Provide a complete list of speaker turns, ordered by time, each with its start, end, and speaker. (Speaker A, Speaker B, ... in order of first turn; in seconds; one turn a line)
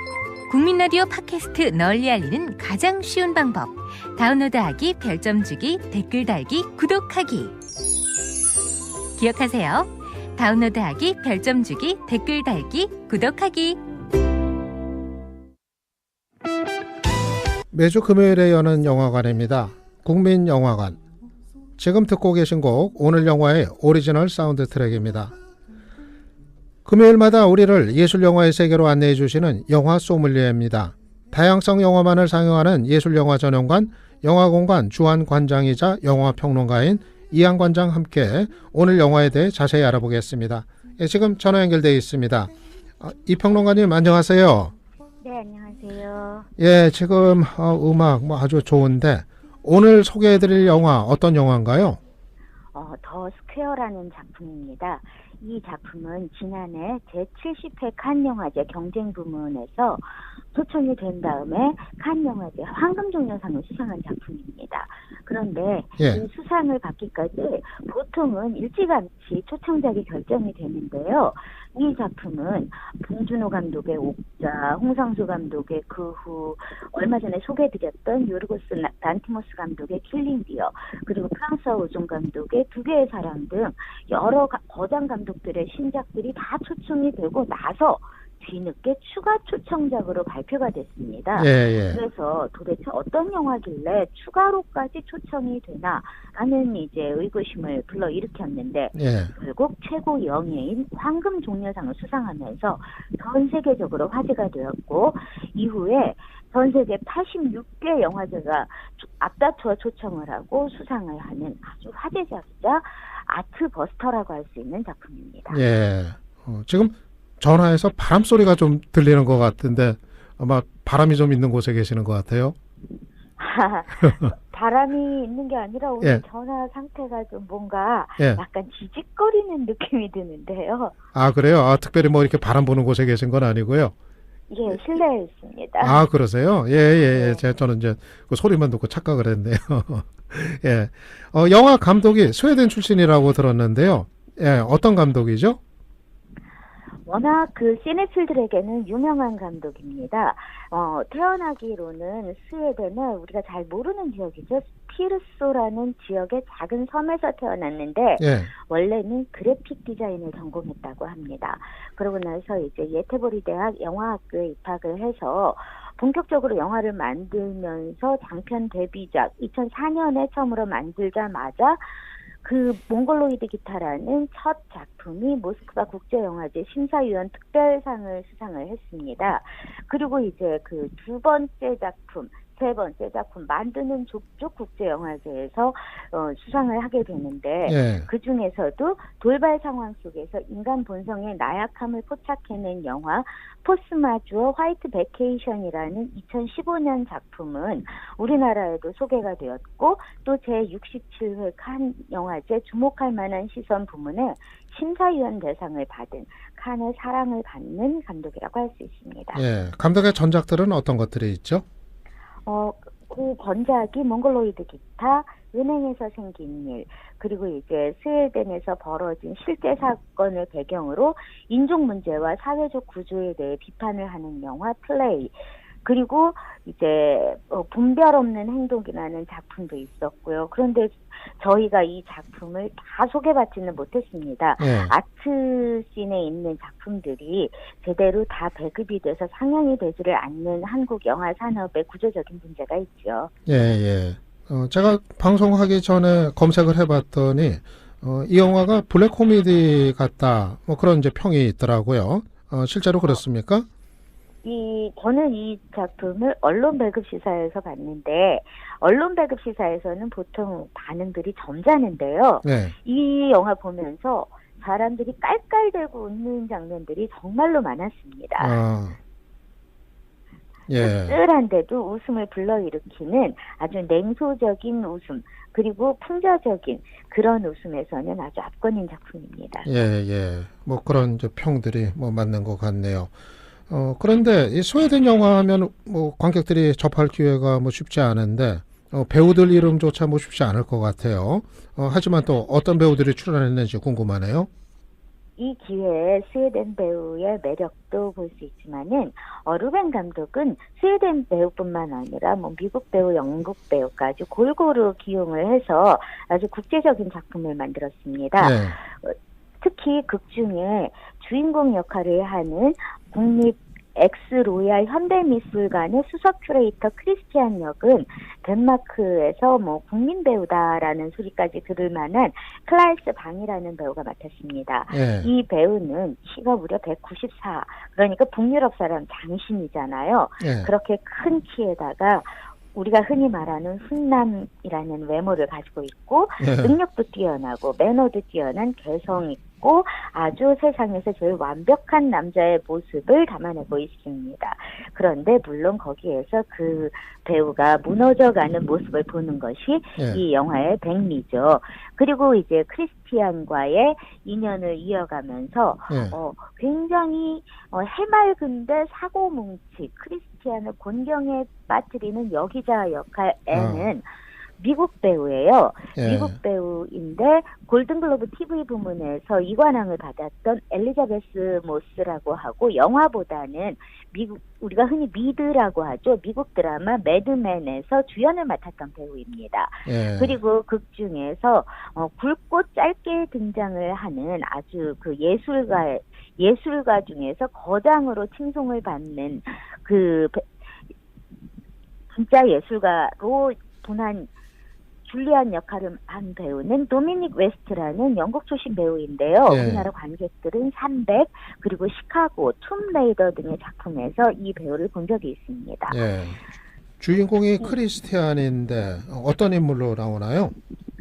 Speaker A: 0.5-7.5
Speaker A: 9.2-13.8
Speaker B: 17.7-21.0
Speaker B: 21.8-25.3
Speaker B: 26.8-44.7
Speaker C: 45.2-46.5
Speaker B: 46.6-52.0
Speaker C: 52.7-115.6
Speaker B: 91.3-92.0
Speaker B: 98.9-99.3
Speaker B: 115.5-122.5
Speaker C: 123.4-130.9
Speaker B: 131.1-133.9
Speaker C: 134.5-136.0
Speaker B: 135.8-145.6
Speaker C: 137.1-137.4
Speaker C: 147.1-209.4
Speaker B: 158.2-158.5
Speaker B: 187.7-188.1
Speaker B: 209.3-211.6
Speaker C: 212.4-243.3
Speaker B: 234.6-234.9
Speaker B: 243.4-253.7
Speaker C: 254.4-268.6
Speaker B: 262.4-262.7
Speaker B: 268.4-269.0
Speaker B: 270.7-271.2
Speaker C: 270.8-279.7
Speaker B: 279.6-283.1
Speaker B: 283.7-294.5
Speaker C: 295.4-364.1
Speaker B: 308.4-308.8
Speaker B: 324.9-325.3
Speaker B: 330.4-330.7
Speaker B: 336.4-336.8
Speaker B: 355.9-356.1
Speaker B: 363.5-363.9
Speaker C: 364.6-390.5
Speaker B: 365.9-366.4
Speaker B: 379.9-380.4
Speaker C: 392.1-394.3
Speaker C: 395.1-406.0
Speaker B: 399.5-399.9
Speaker B: 405.9-406.4
Speaker B: 407.0-410.5